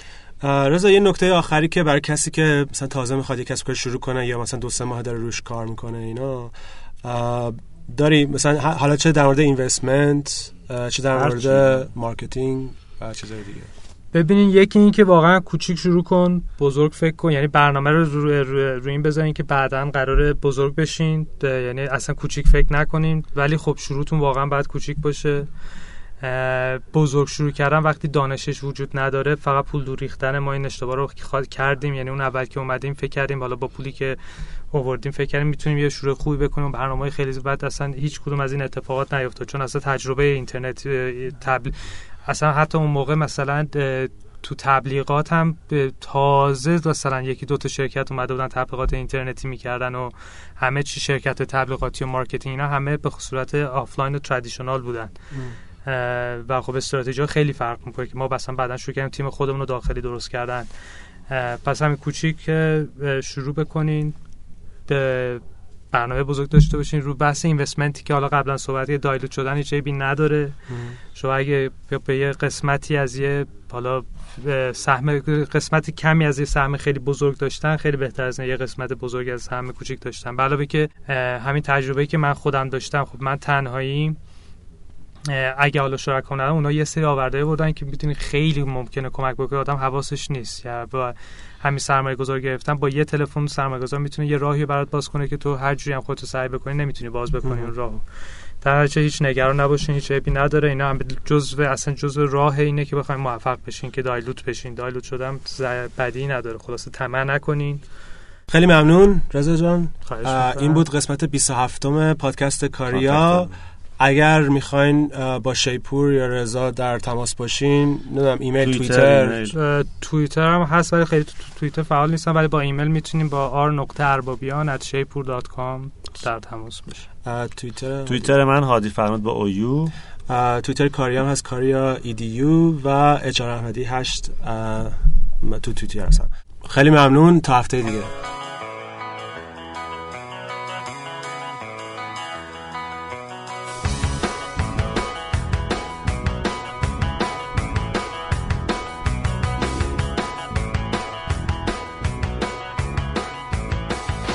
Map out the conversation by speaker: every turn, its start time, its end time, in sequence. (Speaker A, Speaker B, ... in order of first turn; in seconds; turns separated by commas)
Speaker A: 0.4-13.7, Speaker B: 11.1-11.8, Speaker C: 14.1-25.5, Speaker C: 26.2-34.2, Speaker C: 34.7-55.1, Speaker C: 55.8-60.7, Speaker C: 61.3-64.1, Speaker C: 64.9-70.6, Speaker A: 70.7-71.0, Speaker C: 71.1-84.2, Speaker C: 85.3-98.0, Speaker A: 97.4-97.7, Speaker C: 98.6-107.8, Speaker A: 108.5-119.5, Speaker C: 110.0-110.8, Speaker B: 112.9-113.5, Speaker B: 118.6-119.5, Speaker C: 119.5-127.0, Speaker A: 127.2-128.3, Speaker B: 128.1-129.9, Speaker A: 130.3-138.1